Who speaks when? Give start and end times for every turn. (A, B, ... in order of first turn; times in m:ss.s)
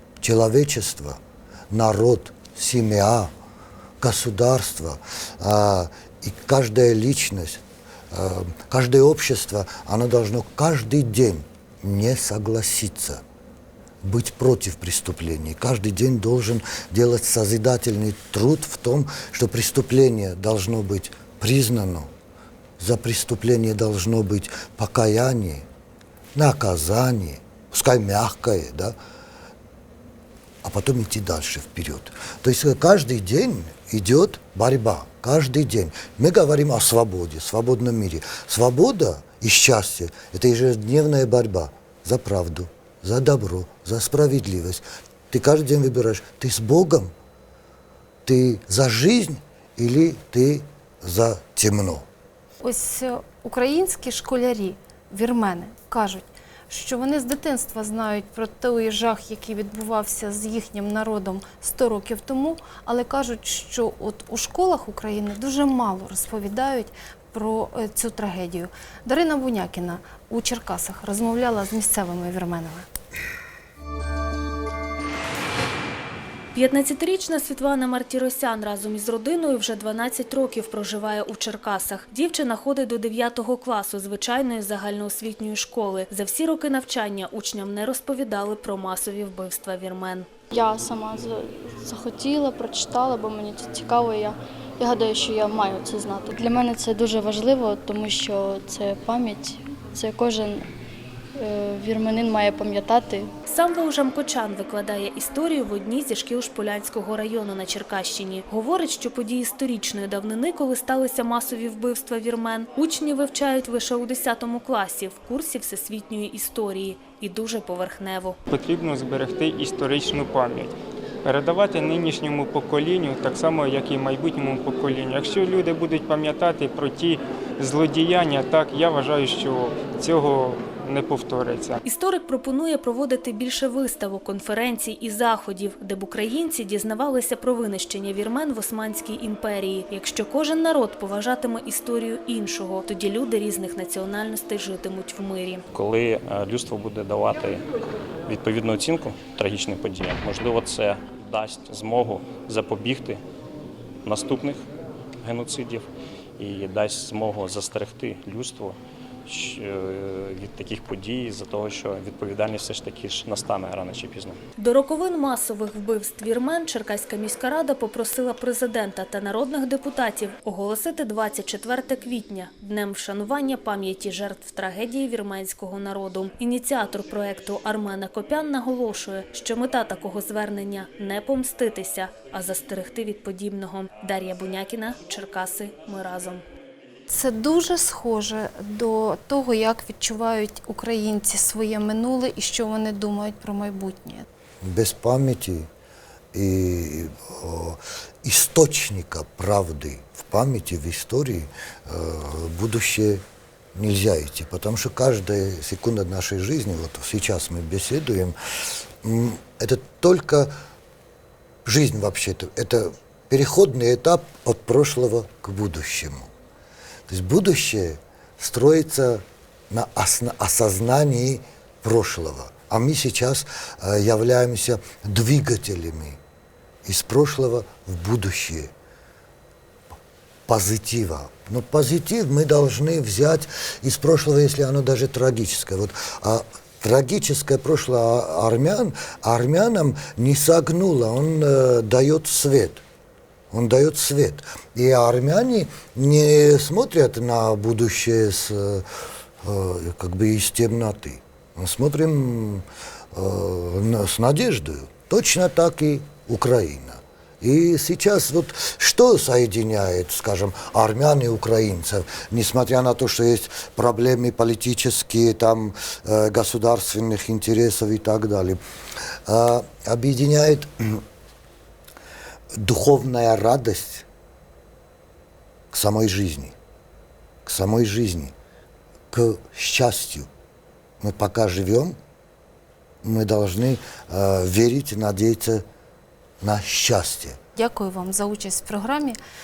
0:00.2-0:03.3 A
0:04.0-0:13.2 A
0:14.0-0:22.1 A
0:22.8-0:25.7 A
0:26.4-0:29.0 A
0:30.6-0:47.1 A
0:48.2-0:52.0 A
0:52.6-1:12.9 B
1:16.5-1:30.3 C
1:30.5-1:40.7 D
1:41.4-1:43.3 D
1:43.5-1:58.4 C
1:58.5-2:11.8 E
2:11.8-2:25.6 C
2:25.7-2:27.6 F
2:28.3-2:33.2 F
2:34.0-2:34.6 F
2:35.2-2:44.4 F
2:44.6-3:06.4 C
3:07.1-3:14.3 B
3:14.6-3:15.7 A
3:16.3-3:23.2 A
3:23.8-3:30.5 A
3:31.6-3:36.3 A
3:37.1-3:46.2 A
3:46.8-3:48.7 A
3:50.5-4:02.8 A
4:03.5-4:08.9 A
4:09.4-4:28.6 A
4:29.3-4:31.0 A
4:32.6-4:34.1 A
4:35.7-4:36.6 A
4:37.4-4:38.3 A
4:39.1-4:40.3 A
4:41.0-4:42.0 A
4:43.0-4:45.6 A
4:46.4-4:47.4 A
4:47.6-4:49.2 B